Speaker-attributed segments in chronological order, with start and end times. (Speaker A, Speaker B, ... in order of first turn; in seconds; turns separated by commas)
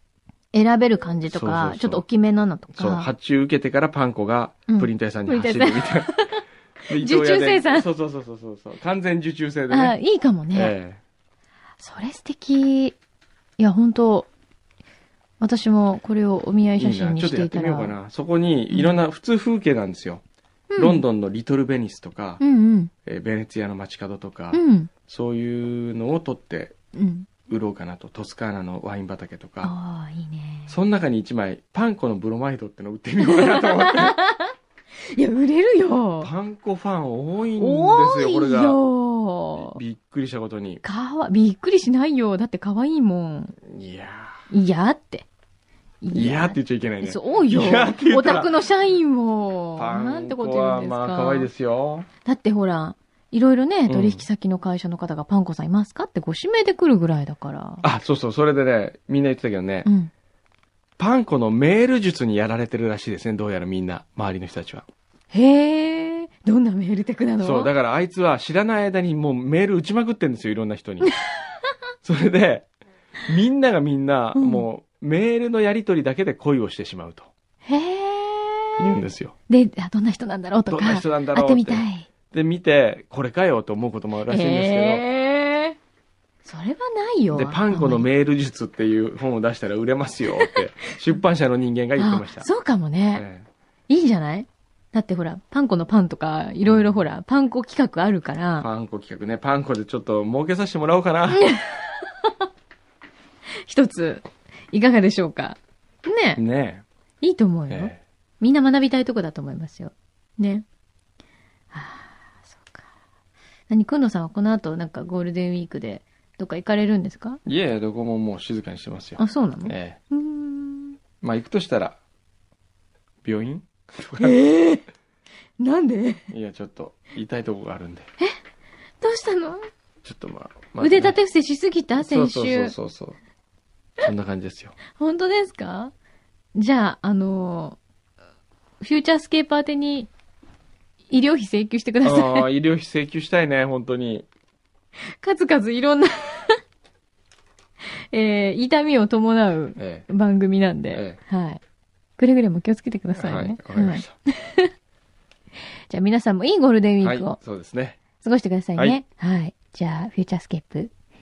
Speaker A: 0.5-3.1, Speaker B: 1.3-2.0, Speaker B: 2.7-6.1, Speaker A: 4.7-7.9, Speaker B: 6.9-10.0, Speaker A: 9.7-10.7, Speaker B: 10.5-11.0, Speaker A: 11.8-12.9, Speaker A: 13.6-14.3, Speaker A: 15.4-17.9, Speaker B: 16.8-20.2, Speaker A: 20.7-21.0, Speaker B: 20.8-22.4, Speaker A: 22.4-22.9, Speaker B: 23.0-26.7, Speaker A: 24.5-24.9, Speaker A: 26.9-27.3, Speaker B: 27.5-29.7, Speaker A: 29.6-30.8, Speaker B: 30.7-34.2, Speaker A: 33.2-34.5, Speaker A: 35.1-36.3, Speaker B: 36.2-38.8, Speaker A: 37.6-39.8, Speaker B: 39.5-40.8, Speaker A: 40.8-43.5, Speaker B: 43.6-44.4, Speaker A: 44.5-45.2, Speaker A: 46.0-51.5, Speaker B: 46.1-48.5, Speaker B: 49.8-52.1, Speaker A: 52.2-57.8, Speaker B: 53.9-54.2, Speaker B: 57.8-59.9, Speaker A: 59.8-60.1, Speaker B: 61.0-64.8, Speaker A: 65.3-67.7, Speaker B: 67.4-71.1, Speaker B: 72.0-72.7, Speaker B: 73.2-77.3, Speaker A: 74.3-74.7, Speaker A: 77.6-82.1, Speaker B: 78.8-79.3, Speaker B: 80.7-85.0, Speaker A: 84.3-85.8, Speaker A: 86.4-88.1, Speaker B: 87.3-92.5, Speaker A: 90.3-90.6, Speaker A: 92.0-93.2, Speaker B: 93.1-93.5, Speaker A: 93.9-98.7, Speaker B: 96.6-97.0, Speaker B: 98.6-101.6, Speaker A: 101.3-102.3, Speaker A: 103.6-106.4, Speaker B: 106.4-106.8, Speaker A: 107.2-110.7, Speaker B: 107.7-108.0, Speaker A: 111.7-112.1, Speaker A: 113.7-117.4, Speaker B: 117.4-120.0, Speaker A: 119.2-121.0, Speaker B: 121.2-122.0, Speaker B: 123.2-124.4, Speaker A: 124.2-124.8, Speaker A: 125.6-126.2, Speaker B: 126.3-128.1, Speaker A: 129.0-129.6, Speaker B: 130.0-131.2, Speaker A: 130.8-132.7, Speaker B: 132.0-133.2, Speaker B: 134.0-134.7, Speaker A: 134.9-135.9, Speaker A: 136.5-137.8, Speaker A: 138.8-140.1, Speaker A: 141.1-142.5, Speaker B: 142.0-144.3, Speaker A: 145.2-146.6, Speaker A: 148.1-151.6, Speaker B: 149.8-150.1, Speaker B: 150.9-151.2, Speaker A: 152.2-154.7, Speaker B: 153.1-154.1, Speaker A: 155.9-157.4, Speaker B: 157.0-158.0, Speaker A: 158.2-160.9